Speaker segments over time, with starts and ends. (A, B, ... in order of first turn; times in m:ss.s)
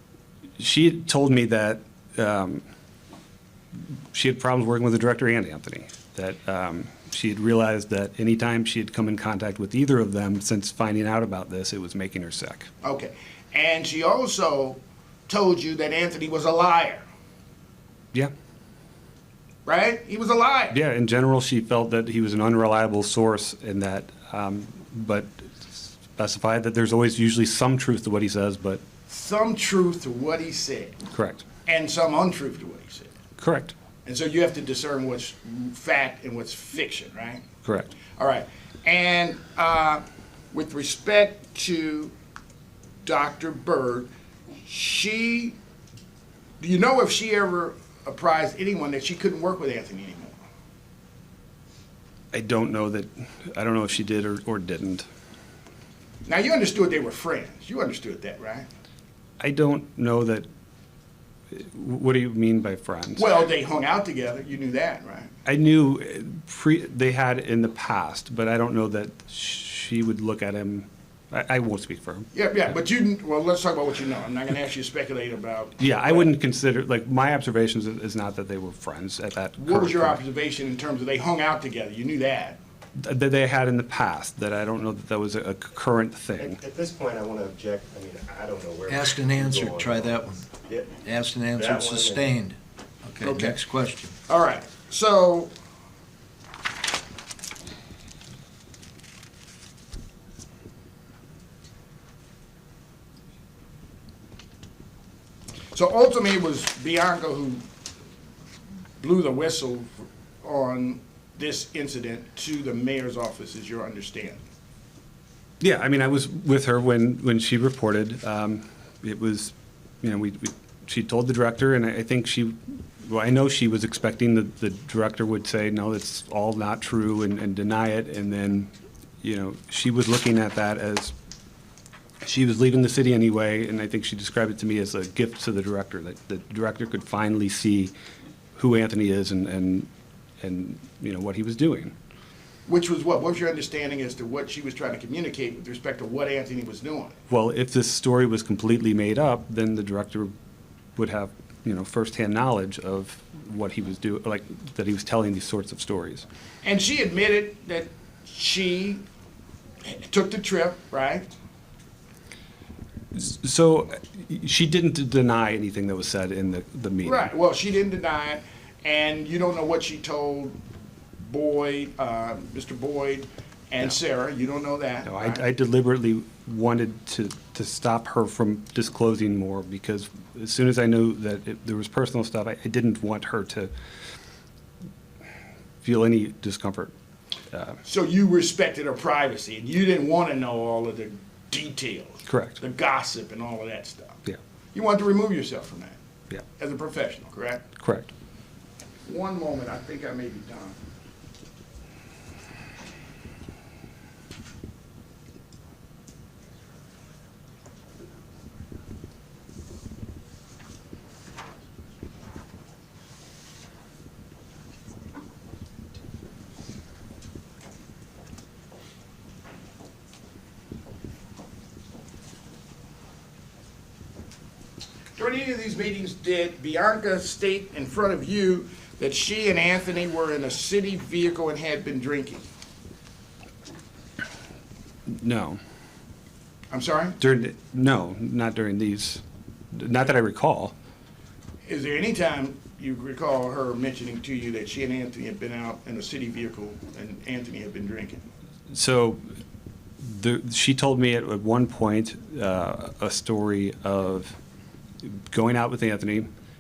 0:00.6-0:02.6 A
0:04.1-0:12.7 A
0:12.8-0:17.0 B
0:19.7-0:20.8 B
0:20.7-0:28.8 A
0:29.1-0:31.0 B
0:31.1-0:31.4 A
0:31.7-0:33.1 B
0:33.4-0:33.7 A
0:34.0-0:37.4 B
0:37.6-0:37.9 A
0:38.2-0:42.1 B
0:43.0-0:44.1 B
0:44.6-0:45.6 B
0:46.6-0:50.4 B
0:52.3-0:55.0 A
0:56.3-0:58.7 B
0:59.4-1:00.5 A
1:01.5-1:03.3 A
1:03.2-1:05.3 B
1:05.5-1:12.3 A
1:12.3-1:16.3 B
1:15.8-1:20.2 A
1:19.6-1:22.6 B
1:23.0-1:26.6 A
1:26.4-1:32.3 C
1:28.9-1:30.4 D
1:31.0-1:34.2 D
1:33.2-1:33.6 B
1:34.3-1:35.5 B
1:45.7-1:47.6 B
1:49.0-1:54.4 B
1:55.6-2:08.7 A
2:09.2-2:11.1 A
2:12.2-2:17.9 A
2:18.6-2:19.9 A
2:20.4-2:21.9 A
2:22.7-2:27.1 B
2:27.3-2:30.3 A
2:31.0-2:36.2 A
2:36.6-2:39.0 B
2:39.8-2:41.3 B
2:43.1-2:47.3 A
2:47.0-2:50.6 B
2:51.2-2:55.4 B
2:55.1-3:03.7 A
3:05.8-3:06.9 A
3:07.5-3:07.8 A
3:07.8-3:14.2 B
3:12.2-3:12.6 A
3:14.7-3:16.0 B
3:16.6-3:17.7 B
3:17.8-3:18.1 A
3:19.1-3:20.8 B
3:45.2-3:52.5 B
3:55.1-3:55.6 A
3:56.7-3:57.2 B
3:57.2-4:00.7 A
4:01.7-4:08.2 B
4:08.7-4:09.2 A
4:10.0-4:14.4 A
4:15.0-4:16.3 A